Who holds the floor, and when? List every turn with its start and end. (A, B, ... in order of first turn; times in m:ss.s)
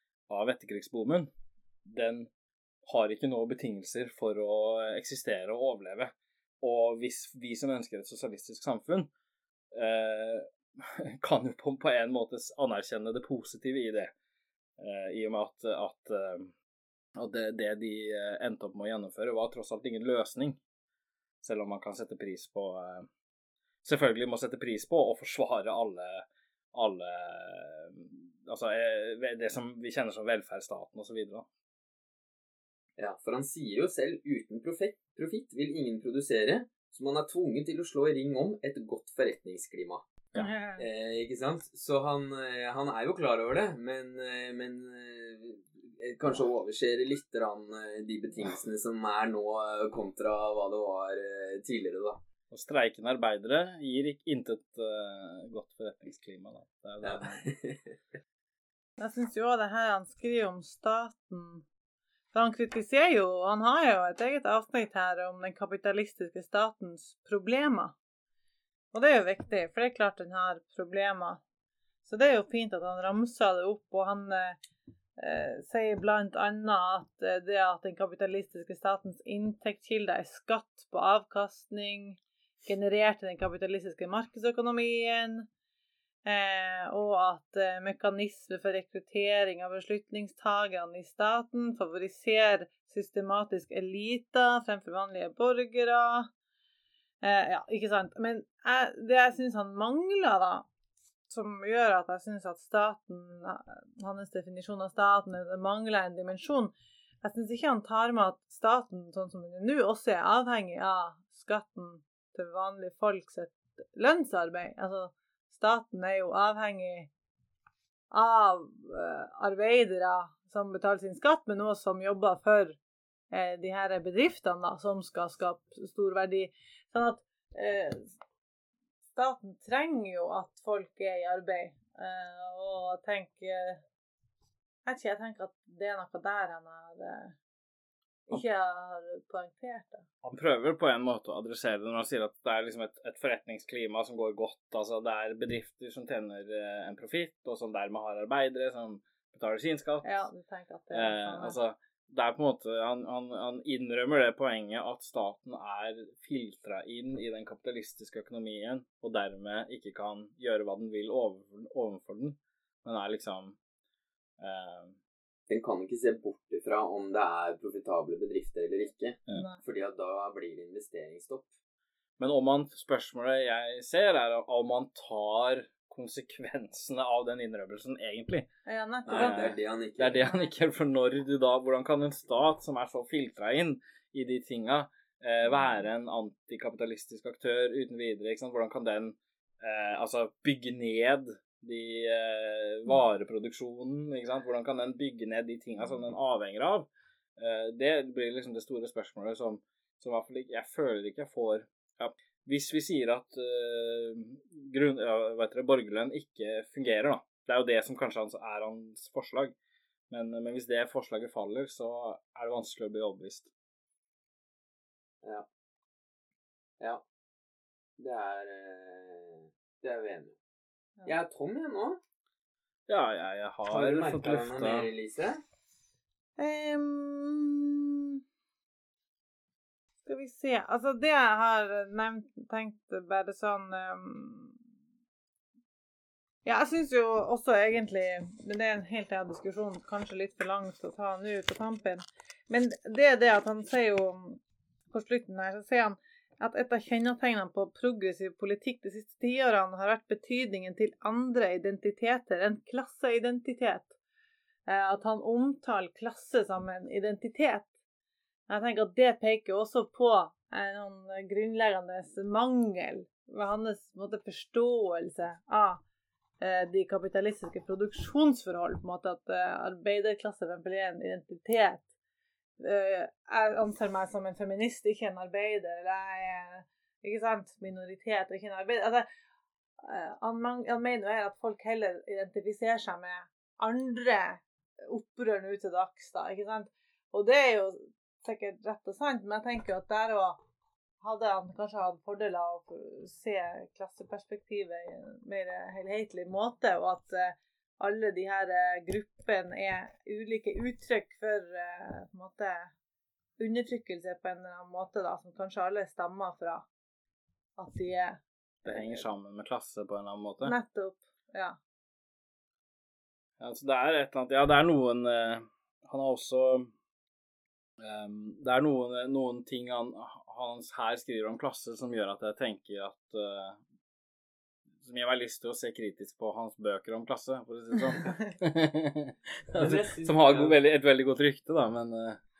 0:00.3-0:01.3 A
0:01.8-0:02.3 A
0:02.8-0:09.1 A
0:09.7-0:14.1 A
0:14.8-0:16.5 A
0:17.2-0:20.6 A
0:21.4-0:23.1 A
0:23.8-0:31.5 A
0:33.0-0:52.2 B
0:40.4-0:40.8 C
0:52.5-0:57.4 A
0:57.0-0:58.0 B
0:59.0-1:01.6 C
1:02.3-1:08.0 C
1:08.9-1:11.4 C
1:12.0-1:14.6 C
1:15.2-1:25.5 C
1:26.2-1:36.3 C
1:37.2-1:40.7 C
1:41.3-1:57.1 C
1:58.1-2:02.8 C
2:03.3-2:08.1 C
2:09.1-2:13.8 C
2:14.8-2:17.4 C
2:18.3-2:20.0 C
2:20.2-2:30.3 A
2:30.0-2:31.6 C
2:30.9-2:43.6 A
2:44.4-2:45.0 A
2:45.5-2:51.5 B
2:49.3-2:49.6 C
2:52.2-2:58.5 A
2:58.6-2:59.5 C
2:59.1-3:29.5 A
2:59.1-3:00.2 B
3:30.1-3:33.5 A
3:38.0-3:40.4 B
3:41.0-3:42.0 B
3:42.9-3:44.9 A
3:43.7-3:45.4 B
3:46.4-3:48.2 C
3:50.0-3:54.6 C
3:56.4-4:04.4 C
4:04.9-4:13.9 C
4:14.7-4:17.7 C
4:18.5-4:25.8 C
4:26.4-4:31.8 C
4:32.6-4:39.1 C
4:39.8-4:50.4 C
4:51.0-5:02.7 C
5:03.4-5:06.7 C
5:07.6-5:08.2 C
5:08.6-5:10.5 A
5:10.4-5:11.6 C
5:13.4-5:16.7 A
5:17.8-5:23.6 A
5:24.8-5:32.2 A
5:29.6-5:30.6 B